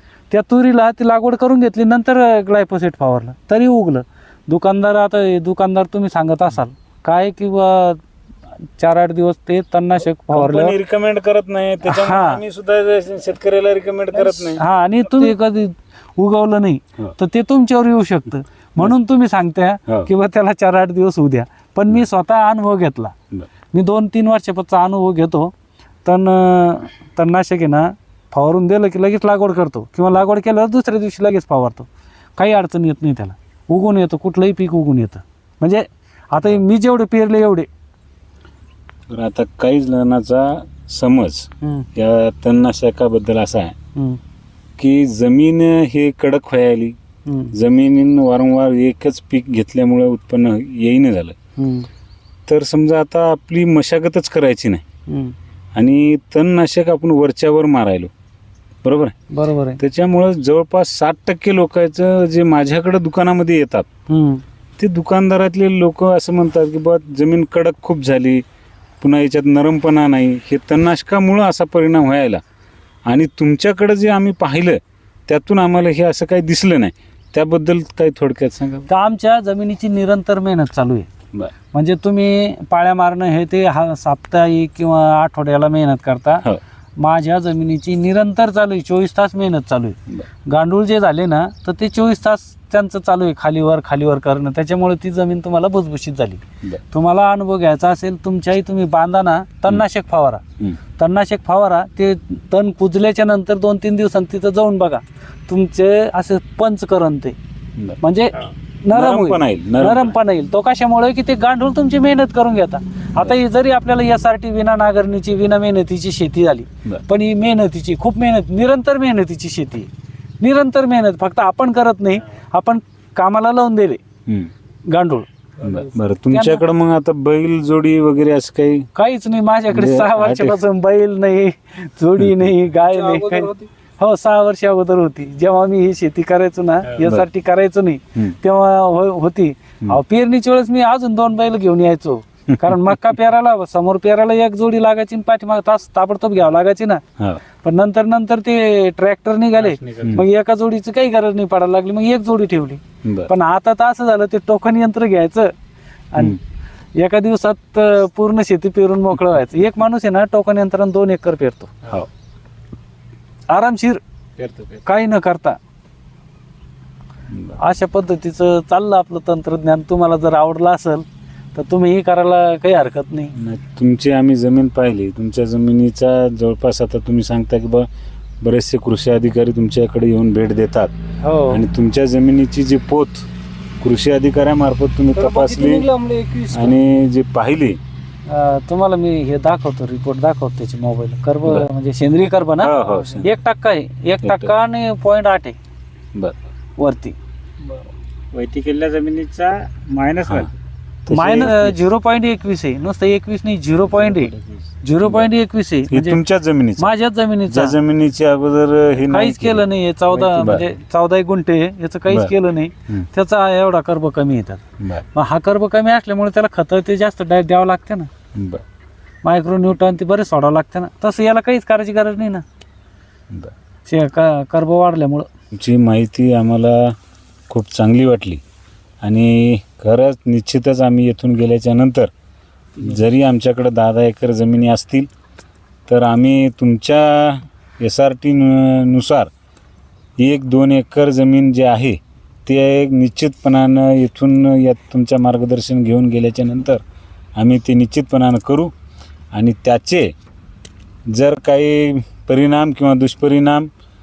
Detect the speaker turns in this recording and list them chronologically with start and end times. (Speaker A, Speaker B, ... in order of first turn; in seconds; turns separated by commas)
Speaker A: 0.3-8.0, Speaker A: 8.8-10.8, Speaker B: 10.3-14.6, Speaker A: 11.8-12.4, Speaker A: 14.5-23.1, Speaker A: 23.7-25.5, Speaker A: 26.0-37.7, Speaker B: 39.1-43.7, Speaker A: 41.6-41.9, Speaker B: 44.8-47.0, Speaker A: 47.2-47.5, Speaker B: 47.5-51.3, Speaker A: 51.6-51.9, Speaker B: 52.5-54.8, Speaker A: 55.1-55.4, Speaker B: 55.8-58.1, Speaker B: 58.8-59.1, Speaker A: 59.3-59.8, Speaker B: 59.8-63.9, Speaker A: 64.1-64.4, Speaker B: 64.8-68.4, Speaker B: 69.0-72.4, Speaker B: 73.1-78.9, Speaker A: 78.9-81.1, Speaker A: 81.7-86.4, Speaker A: 87.0-100.4, Speaker A: 101.0-107.3, Speaker A: 108.0-119.9, Speaker B: 108.9-110.2, Speaker A: 120.4-124.0, Speaker B: 124.3-124.5, Speaker A: 124.9-125.3, Speaker B: 125.6-128.9, Speaker A: 126.3-126.6, Speaker A: 128.9-147.0, Speaker B: 129.7-130.6, Speaker B: 132.2-132.5, Speaker C: 132.9-133.7, Speaker B: 137.0-137.2, Speaker B: 142.7-143.0, Speaker A: 147.6-155.5, Speaker D: 149.5-150.2, Speaker A: 156.1-156.4, Speaker A: 156.9-161.7, Speaker A: 163.5-164.0, Speaker D: 164.4-164.8, Speaker A: 164.8-165.6, Speaker B: 167.3-167.6, Speaker A: 167.6-173.3, Speaker B: 173.3-177.9, Speaker B: 178.4-180.9, Speaker A: 181.2-181.6, Speaker B: 181.5-183.3, Speaker B: 183.8-185.8, Speaker C: 185.1-186.8, Speaker B: 186.5-187.8, Speaker A: 188.3-195.6, Speaker B: 192.6-193.3, Speaker C: 192.9-193.2, Speaker B: 194.2-194.5, Speaker A: 196.8-197.2, Speaker C: 197.6-197.9, Speaker D: 198.3-200.5, Speaker B: 201.1-201.8, Speaker A: 201.1-204.3, Speaker D: 203.9-204.7, Speaker A: 204.8-206.2, Speaker B: 205.9-206.9, Speaker A: 206.8-207.8, Speaker B: 207.5-210.7, Speaker A: 209.1-214.6, Speaker A: 215.1-218.1, Speaker B: 218.3-218.6, Speaker A: 219.2-222.4, Speaker A: 223.8-225.3, Speaker B: 225.5-226.9, Speaker B: 227.5-228.4, Speaker B: 229.0-232.1, Speaker B: 232.8-235.1, Speaker B: 235.9-239.3, Speaker B: 240.2-246.8, Speaker B: 247.4-248.7, Speaker B: 249.3-250.1, Speaker B: 251.1-253.7